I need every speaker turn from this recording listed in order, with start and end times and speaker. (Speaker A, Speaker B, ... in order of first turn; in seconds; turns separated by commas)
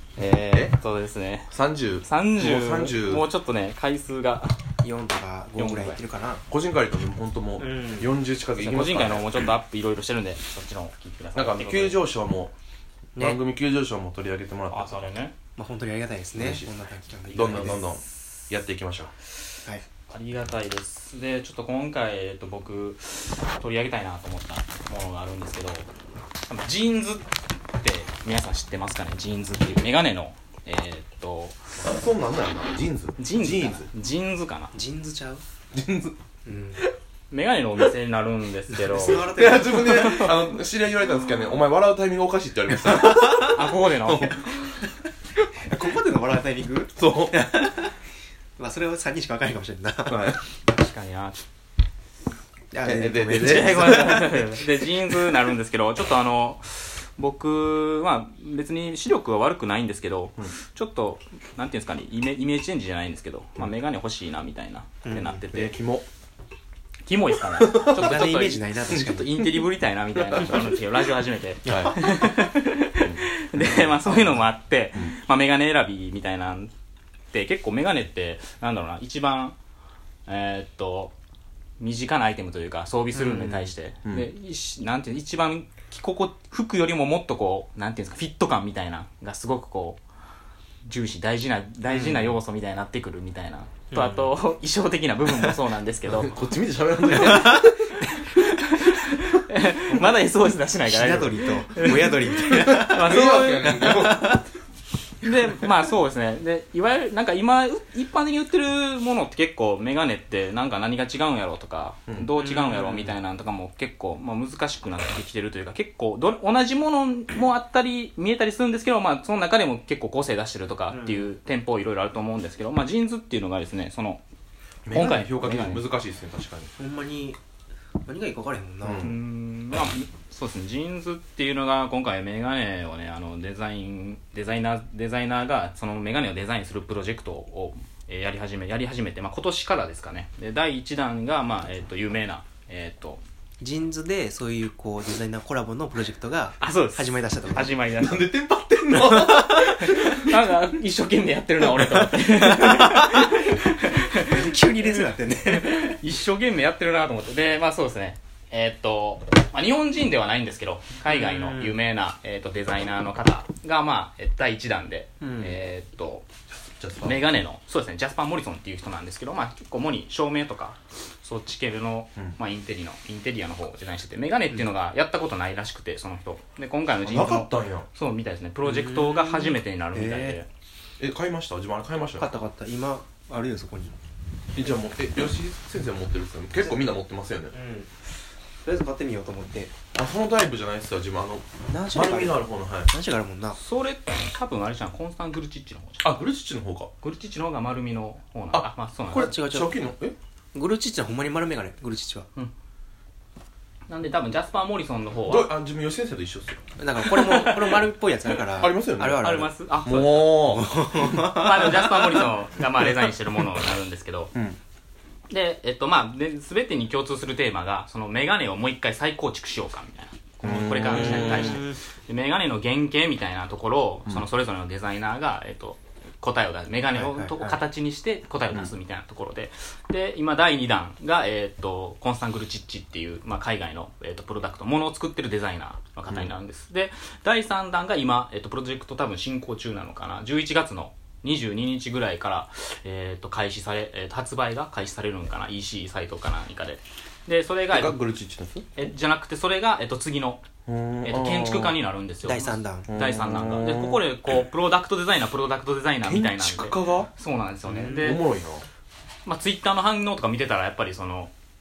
Speaker A: 0.2-1.5, Speaker B: 1.5-3.3, Speaker A: 2.0-4.6, Speaker C: 4.8-6.4, Speaker A: 5.6-6.0, Speaker B: 6.5-9.5, Speaker C: 7.6-8.1, Speaker A: 8.6-12.0, Speaker B: 11.3-12.5, Speaker B: 13.2-15.0, Speaker A: 14.7-15.3, Speaker C: 15.6-17.9, Speaker B: 16.4-16.7, Speaker B: 17.3-19.1, Speaker A: 17.4-17.8, Speaker A: 20.1-25.9, Speaker A: 26.4-31.6, Speaker B: 31.8-33.9, Speaker A: 33.2-34.8, Speaker C: 34.7-35.4, Speaker B: 35.7-36.2, Speaker C: 36.5-36.8, Speaker A: 37.3-40.3, Speaker C: 38.7-40.4, Speaker B: 39.1-44.6, Speaker C: 42.8-43.7, Speaker A: 43.4-44.7, Speaker C: 45.6-48.0, Speaker B: 47.0-47.4, Speaker C: 48.6-50.4, Speaker B: 50.1-50.4, Speaker A: 50.7-51.5, Speaker C: 52.7-54.1, Speaker B: 52.8-54.7, Speaker A: 53.3-65.8, Speaker C: 65.0-65.5, Speaker B: 65.5-66.1, Speaker A: 67.1-76.7, Speaker B: 67.6-68.2, Speaker C: 67.9-69.4, Speaker B: 69.4-70.8, Speaker C: 71.7-72.0, Speaker B: 71.7-72.3, Speaker B: 73.0-74.4, Speaker A: 77.3-79.6, Speaker A: 80.3-81.2, Speaker A: 81.8-90.0, Speaker C: 83.1-83.7, Speaker A: 90.8-96.3, Speaker C: 91.9-92.3, Speaker C: 93.9-94.3, Speaker C: 95.3-95.6, Speaker B: 96.1-98.0, Speaker C: 97.1-97.7, Speaker A: 97.2-103.9, Speaker C: 100.9-104.4, Speaker B: 102.5-104.4, Speaker A: 105.2-124.2, Speaker B: 112.1-113.1, Speaker C: 120.9-121.3, Speaker B: 124.9-126.7, Speaker A: 124.9-125.8, Speaker C: 126.8-127.4, Speaker C: 128.1-129.2, Speaker B: 128.8-129.2, Speaker A: 129.0-143.2, Speaker C: 143.6-147.8, Speaker A: 146.6-148.3, Speaker B: 148.0-150.3, Speaker A: 148.9-166.3, Speaker C: 149.3-149.5, Speaker C: 152.2-153.5, Speaker C: 154.3-155.9, Speaker C: 161.1-161.8, Speaker C: 165.2-165.6, Speaker B: 166.6-167.3, Speaker A: 167.0-180.5, Speaker B: 177.0-177.9, Speaker C: 178.6-180.4, Speaker B: 181.0-182.3, Speaker C: 182.2-183.9, Speaker B: 184.6-187.5, Speaker C: 187.5-187.9, Speaker C: 188.7-189.8, Speaker B: 189.9-192.9, Speaker C: 191.7-193.6, Speaker A: 193.6-196.1, Speaker B: 196.0-196.9, Speaker A: 197.0-199.4, Speaker B: 198.5-200.2, Speaker C: 199.1-199.8, Speaker C: 200.5-202.3, Speaker A: 203.9-205.5, Speaker B: 205.3-206.6, Speaker C: 206.8-209.5, Speaker A: 207.0-207.8, Speaker B: 208.6-210.7, Speaker A: 209.1-210.4, Speaker C: 210.4-212.2, Speaker A: 211.0-214.3, Speaker B: 214.3-214.6, Speaker A: 215.3-248.0, Speaker B: 220.4-221.6, Speaker C: 220.4-221.8, Speaker C: 226.9-227.6, Speaker B: 247.7-248.7, Speaker A: 248.8-250.4, Speaker B: 250.7-251.8, Speaker A: 251.0-258.2, Speaker C: 252.2-252.9, Speaker B: 252.9-254.1, Speaker B: 256.0-257.1, Speaker C: 257.7-258.2, Speaker B: 257.8-258.7, Speaker A: 259.2-261.3